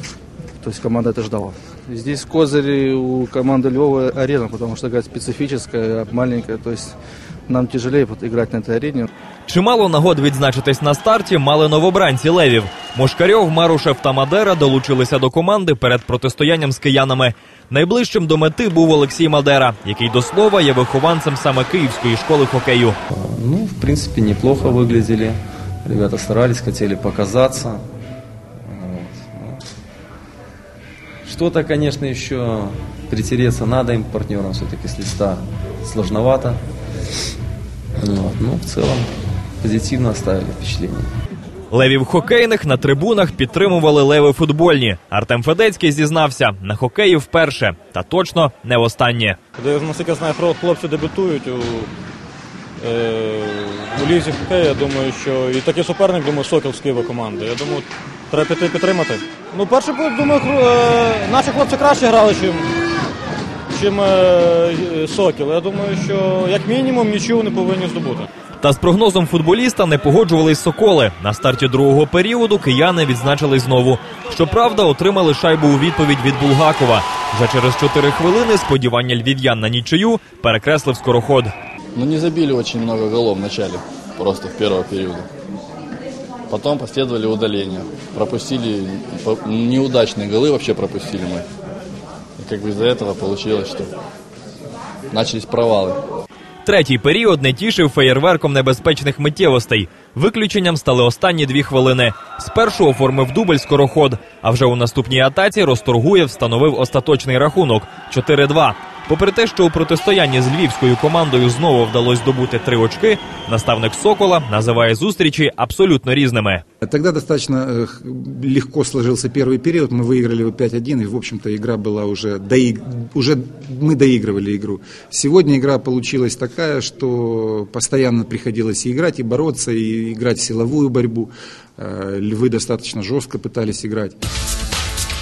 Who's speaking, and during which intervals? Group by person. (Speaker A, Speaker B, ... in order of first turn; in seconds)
Speaker A: 0.6-6.9, 7.5-9.1
Speaker B: 9.5-23.0, 41.7-49.4, 68.6-81.5, 96.6-116.6
Speaker C: 23.1-27.9, 28.6-29.6, 31.2-36.6, 38.0-41.1
Speaker D: 49.6-51.9, 52.8-62.7, 63.7-68.3
Speaker E: 82.0-85.3, 86.5-91.5, 92.4-93.9, 95.1-96.0
Speaker F: 116.8-134.2